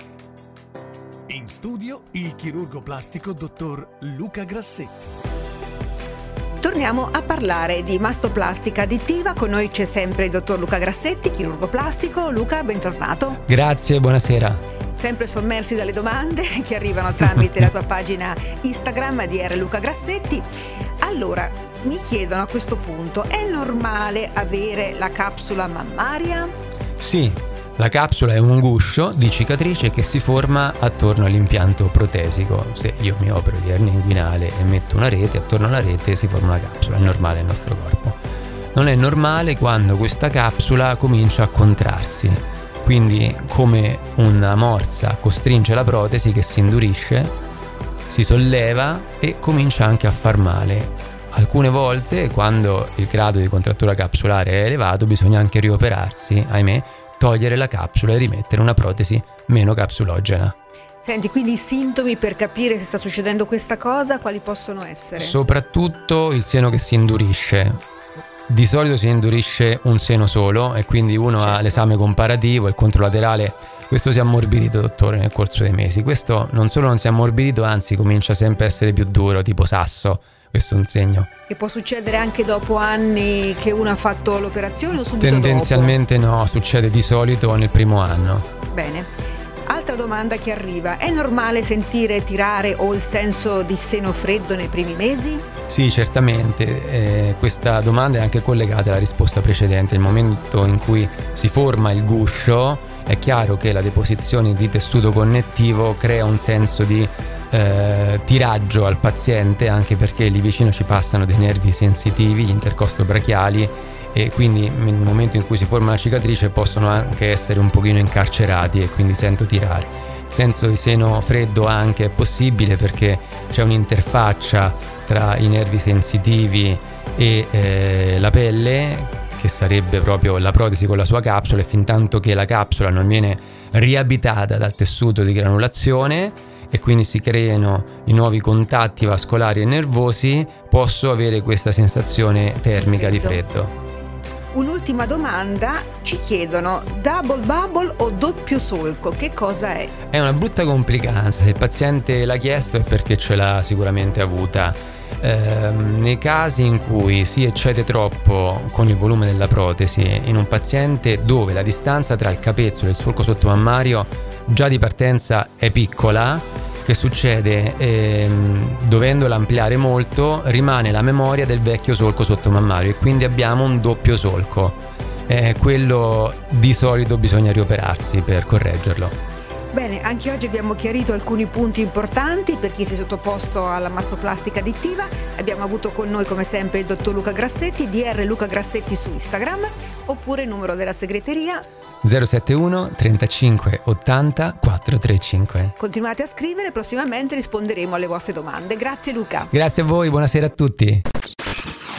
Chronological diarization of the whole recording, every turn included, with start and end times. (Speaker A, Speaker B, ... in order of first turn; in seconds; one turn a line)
Speaker A: 1.3-5.1
Speaker B: 6.6-13.4
Speaker C: 13.5-14.6
Speaker B: 15.0-20.5
Speaker B: 21.0-26.5
Speaker C: 27.0-38.2
Speaker C: 38.7-47.3
Speaker C: 48.1-60.5
Speaker B: 61.0-65.4
Speaker C: 65.2-67.8
Speaker C: 68.5-81.3
Speaker B: 71.4-71.8
Speaker B: 81.5-86.0
Speaker C: 85.2-88.5
Speaker B: 88.7-89.1
Speaker B: 89.7-95.5
Speaker C: 95.7-143.7
Speaker B: 142.8-143.4
Speaker B: 144.5-149.9
Speaker C: 150.1-179.2
Speaker B: 179.7-191.7
Speaker C: 192.0-195.8
Speaker B: 195.8-199.5
Speaker C: 199.5-201.1